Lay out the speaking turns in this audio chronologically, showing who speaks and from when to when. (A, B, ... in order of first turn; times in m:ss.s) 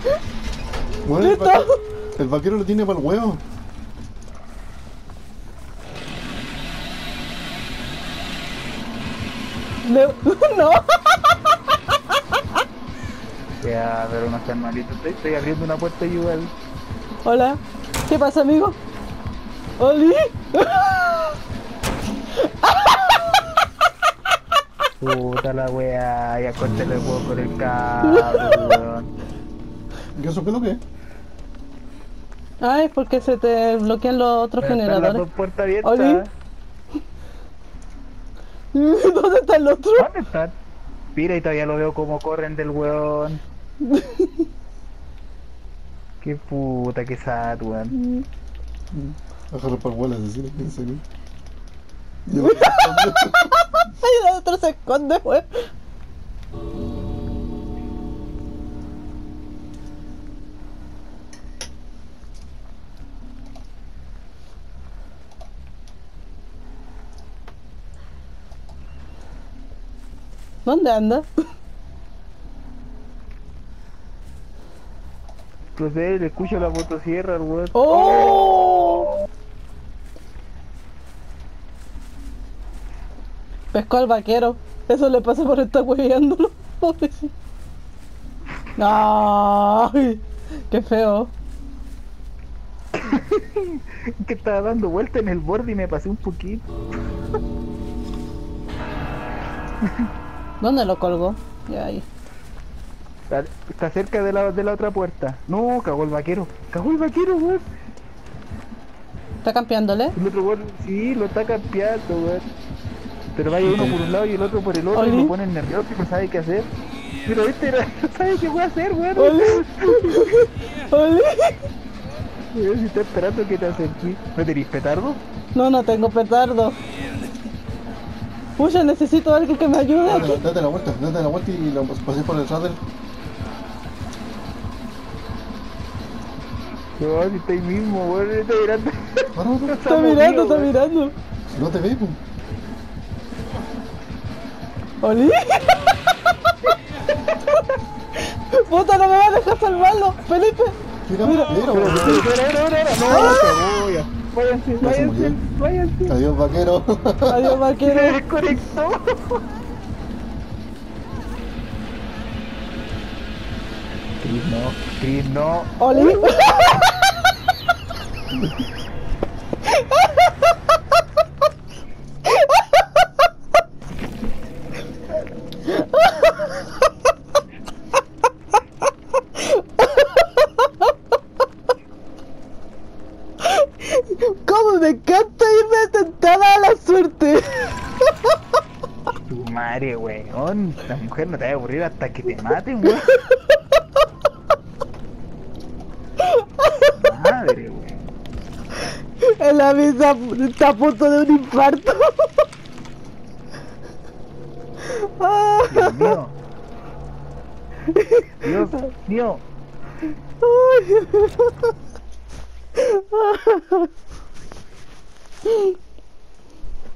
0:01.0-0:03.4 A
0:01.2-0:01.8 B
0:09.8-0:11.6 B
0:13.6-0:16.5 C
0:17.2-0:18.8 B
0:19.8-0:21.4 B
0:22.4-0:23.4 B
0:25.0-0:29.1 C
0:28.1-0:28.6 B
0:30.2-0:30.8 A
0:32.6-0:35.2 B
0:34.6-0:36.3 C
0:35.8-0:36.2 B
0:38.7-0:40.1 B
0:40.0-0:40.6 C
0:41.2-0:43.4 C
0:43.8-0:44.3 B
0:46.2-0:48.0 C
0:48.0-0:48.2 B
0:48.9-0:51.0 A
0:52.3-0:53.6 A
0:52.4-0:55.7 B
1:10.6-1:11.3 B
1:15.8-1:19.0 C
1:17.8-1:19.1 B
1:23.7-1:27.3 B
1:28.8-1:31.3 B
1:33.0-1:36.6 C
1:40.6-1:42.0 B
1:43.3-1:47.6 C
1:49.4-1:50.2 B
1:50.2-1:52.5 C
1:53.4-1:56.7 C
1:53.6-1:54.0 A
1:54.9-1:55.3 B
1:57.3-2:00.2 C
1:59.2-2:01.7 B
2:02.5-2:05.2 C
2:05.6-2:06.8 B
2:08.6-2:10.4 B
2:10.0-2:12.8 A
2:17.0-2:20.7 C
2:19.3-2:19.8 A
2:19.9-2:21.1 B
2:21.5-2:22.2 A
2:25.0-2:26.0 B
2:28.2-2:31.6 B
2:31.1-2:32.3 A
2:31.5-2:36.2 C
2:33.1-2:33.6 B
2:34.8-2:35.4 A
2:36.1-2:37.6 A
2:37.3-2:38.2 B
2:37.8-2:39.4 C
2:44.2-2:46.4 C
2:45.8-2:47.0 B
2:55.7-2:56.7 B
2:59.4-3:00.5 B
3:03.5-3:08.1 B
3:09.1-3:13.1 C
3:12.9-3:13.4 B
3:16.2-3:16.9 B
3:16.9-3:17.9 C
3:19.2-3:22.4 B
3:24.8-3:26.2 B
3:25.7-3:26.3 C
3:27.9-3:28.5 B
3:28.4-3:29.4 C
3:30.4-3:31.7 B
3:32.8-3:33.9 B
3:35.5-3:35.8 B